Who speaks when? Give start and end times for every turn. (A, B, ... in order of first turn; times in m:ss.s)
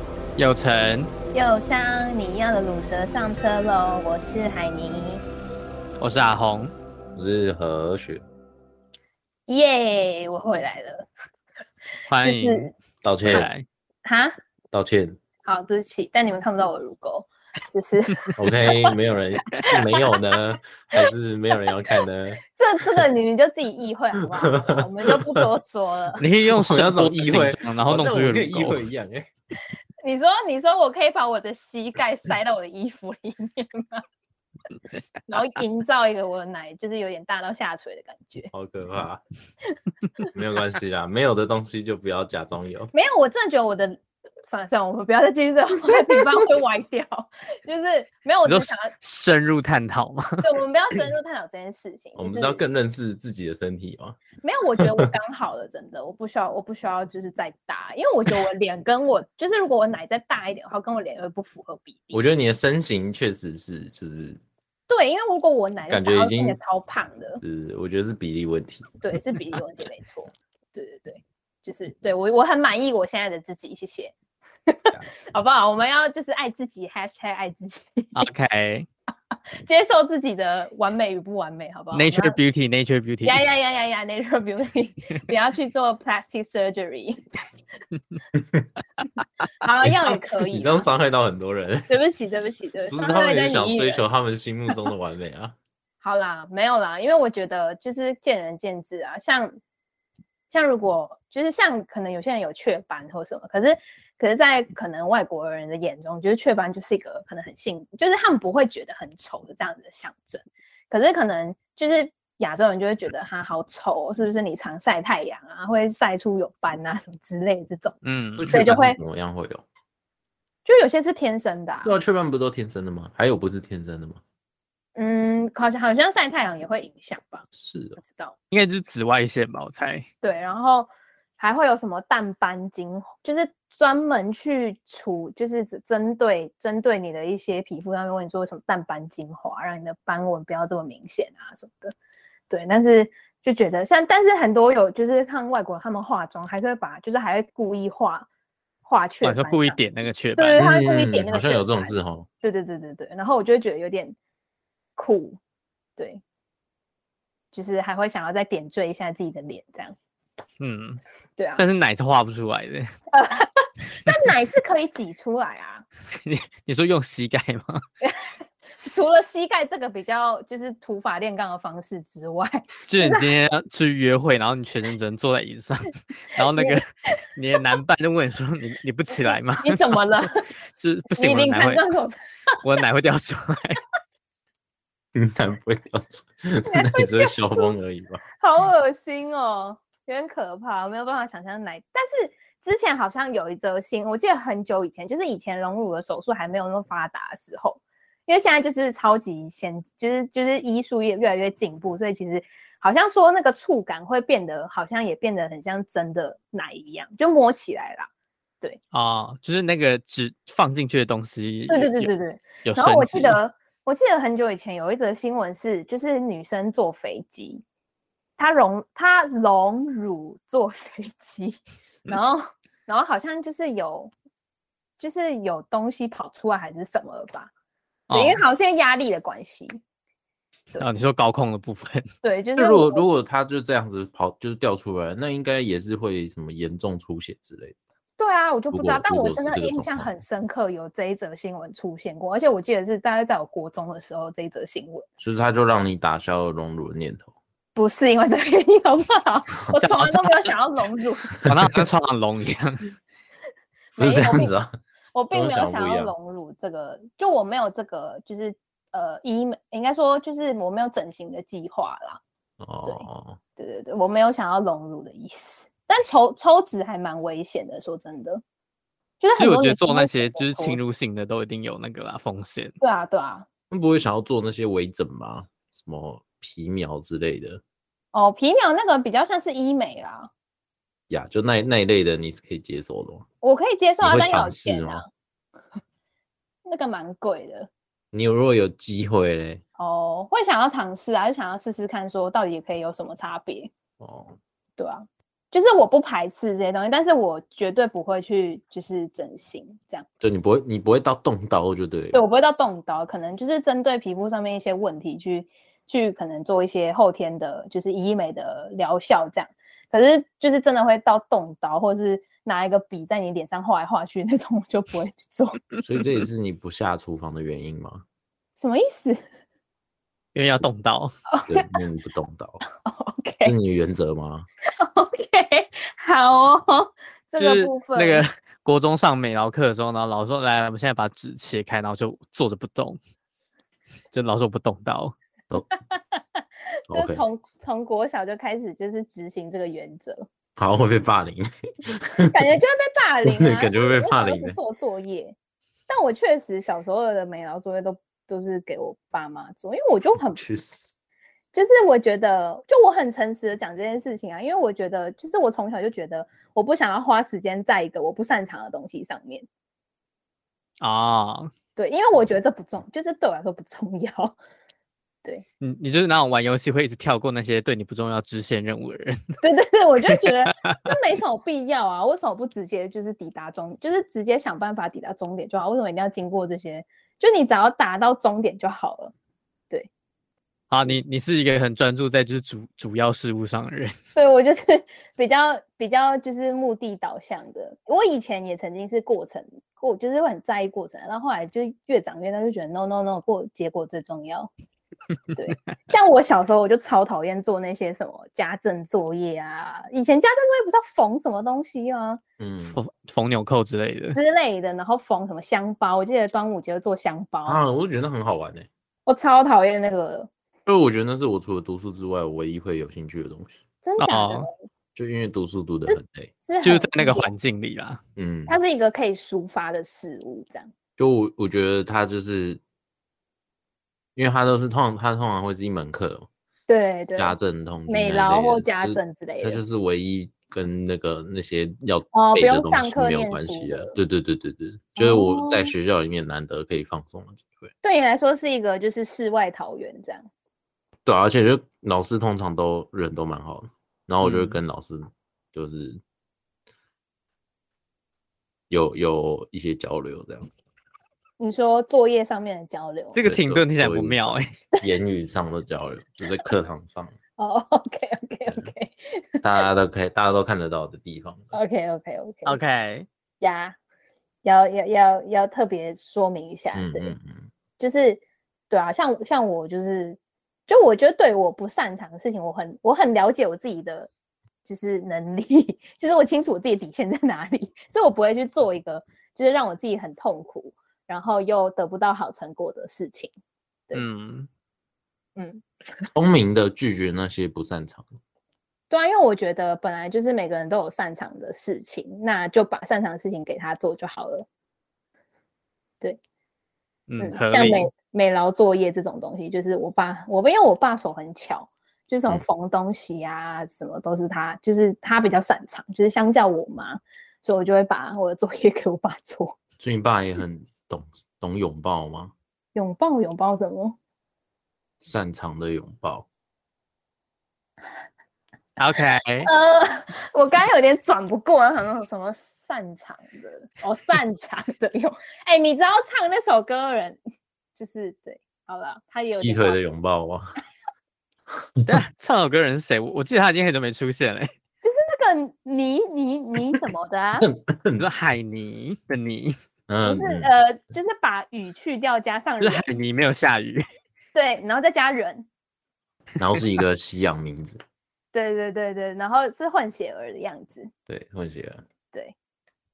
0:00.4-0:01.1 A
0:01.3-0:05.2 B
0:06.0-0:06.7 A
0:07.2-0:08.2 C
0:09.5-0:11.1 B
0:12.1-0:12.7 A
0:12.2-0:12.7 B
0:13.0-0:13.5 C
0:13.2-0:13.6 A
0:14.0-0:14.4 B
0:14.7-0:15.2 C
0:15.4-0:18.9 B
0:18.4-0:22.4 C
0:19.6-0:20.2 B
0:22.5-0:26.2 B
0:24.4-0:25.5 C
0:26.2-0:28.8 A
0:26.4-0:29.3 C
0:30.0-0:34.0 B
0:35.3-0:38.5 B
0:38.5-0:39.2 C
0:40.3-0:42.9 C
0:42.9-0:48.9 B
0:48.4-0:50.5 A
0:50.4-0:52.6 B
0:52.2-0:54.2 C
0:54.4-1:02.3 B
0:54.8-0:55.1 C
1:02.1-1:04.4 C
1:04.9-1:07.4 B
1:05.9-1:06.6 C
1:07.4-1:09.0 C
1:09.0-1:14.1 B
1:14.7-1:18.2 B
1:18.2-1:18.9 A
1:19.6-1:22.4 B
1:21.9-1:23.4 A
1:23.2-1:27.2 B
1:28.4-1:28.7 C
1:29.6-1:30.9 B
1:29.8-1:31.9 C
1:31.9-1:34.0 B
1:32.9-1:35.6 C
1:36.0-1:39.6 B
1:40.5-1:58.0 B
1:58.0-1:58.6 A
1:58.4-1:59.6 C
1:58.5-1:59.0 B
2:00.6-2:02.0 B
2:01.8-2:04.2 C
2:05.0-2:07.5 B
2:07.6-2:08.0 C
2:08.0-2:08.4 B
2:08.5-2:10.1 A
2:10.2-2:22.0 B
2:22.5-2:28.3 B
2:28.9-2:29.8 B
2:29.2-2:30.6 A
2:30.4-2:34.2 B
2:30.6-2:32.3 C
2:35.0-2:35.4 B
2:37.5-2:40.0 B
2:40.6-2:41.0 A
2:41.4-2:41.6 B
2:41.6-2:42.9 A
2:43.1-2:45.8 B
2:46.2-2:47.8 A
2:48.0-2:48.3 B
2:48.8-2:53.3 B
2:52.9-3:00.1 A
2:56.4-2:57.1 B
2:59.2-3:00.4 B
3:00.8-3:01.8 A
3:01.2-3:02.2 B
3:02.6-3:03.8 A
3:05.2-3:08.2 C
3:06.7-3:07.7 B
3:08.4-3:28.1 B
3:28.9-3:32.1 A
3:31.7-3:37.6 B
3:32.6-3:33.4 A
3:38.4-3:44.1 B
3:45.0-3:47.5 B
3:48.1-3:48.4 A
3:48.1-3:49.8 B
3:50.8-3:52.1 A
3:52.2-3:53.0 B
3:52.6-3:57.8 C
3:58.2-4:05.1 B
3:58.7-4:00.1 C
4:05.2-4:07.3 C
4:07.8-4:11.4 B
4:09.8-4:10.5 A
4:11.3-4:11.8 C
4:11.4-4:12.8 A
4:14.0-4:14.5 B
4:14.0-4:14.8 C
4:15.1-4:22.2 B
4:15.3-4:16.1 C
4:22.6-4:23.4 C
4:23.6-4:28.4 B
4:29.2-4:30.9 B
4:29.4-4:32.8 A
4:32.8-4:33.5 B
4:33.7-4:37.6 C
4:38.1-4:40.3 B
4:41.1-4:43.2 C
4:43.4-4:45.1 B
4:44.0-4:45.0 C
4:46.6-4:47.7 B
4:48.1-4:49.6 C
4:49.8-4:53.7 B
4:54.0-4:54.4 C
4:54.8-5:00.1 B
5:00.2-5:02.2 C
5:02.1-5:15.6 B
5:15.8-5:18.0 C
5:18.6-5:19.2 B
5:20.3-5:21.1 A
5:21.3-5:21.8 B
5:21.5-5:22.6 C
5:22.8-5:23.5 B
5:23.4-5:24.5 C
5:24.7-5:28.2 B
5:27.4-5:33.0 A
5:34.1-5:35.2 A
5:35.9-5:40.3 B
5:36.9-5:37.2 C
5:40.6-5:42.4 C
5:42.2-5:45.4 B
5:43.2-5:44.6 C
5:45.9-5:50.4 B
5:50.3-5:50.9 C
5:51.5-5:59.5 B
6:00.8-6:01.5 A
6:01.8-6:04.4 B
6:05.6-6:09.2 A
6:09.4-6:19.1 B
6:10.0-6:10.8 A
6:20.7-6:24.0 A
6:24.2-6:34.5 B
6:35.4-6:42.2 B
6:42.4-6:42.8 C
6:42.7-6:44.2 A
6:44.1-6:47.6 B
6:47.5-6:48.7 C
6:49.1-6:50.3 B
6:50.7-6:53.6 C
6:53.8-6:54.6 B
6:54.0-6:54.5 A
6:55.0-6:56.3 C
6:55.9-6:57.3 B
6:56.6-6:58.0 A
6:58.2-6:58.6 C
6:58.5-7:00.7 B
7:01.0-7:02.6 C
7:04.2-7:06.3 C
7:06.7-7:07.4 B
7:07.2-7:17.7 C
7:07.9-7:09.6 B
7:12.1-7:14.0 B
7:15.0-7:15.7 B
7:17.8-7:20.3 B
7:21.1-7:26.0 C
7:24.2-7:24.6 A
7:28.7-7:30.5 C
7:31.4-7:33.2 B
7:33.1-7:34.5 A
7:33.2-7:37.2 C
7:37.4-7:39.6 B
7:39.4-7:41.5 C
7:41.5-7:42.6 B
7:42.4-7:43.1 A
7:43.4-7:43.8 B
7:44.4-7:47.1 B
7:46.7-7:47.5 C
7:47.8-7:54.1 B
7:54.6-8:03.3 B
8:03.9-8:04.5 A
8:05.4-8:05.6 B
8:06.1-8:08.1 C
8:08.9-8:14.5 B
8:17.1-8:17.9 A
8:17.2-8:29.6 B
8:29.8-8:32.3 C
8:32.8-8:34.0 B
8:35.0-8:36.3 C
8:38.8-8:39.5 A
8:39.4-8:47.2 B
8:47.8-8:49.8 B
8:49.4-8:50.5 C
8:51.9-8:54.5 A
8:54.8-8:57.5 B
8:57.4-8:58.0 C
8:58.0-8:59.6 A
8:59.9-9:00.5 C
9:00.0-9:02.8 B
9:02.6-9:03.8 A
9:04.3-9:05.5 B
9:06.4-9:07.8 C
9:08.3-9:10.9 B
9:11.1-9:11.8 C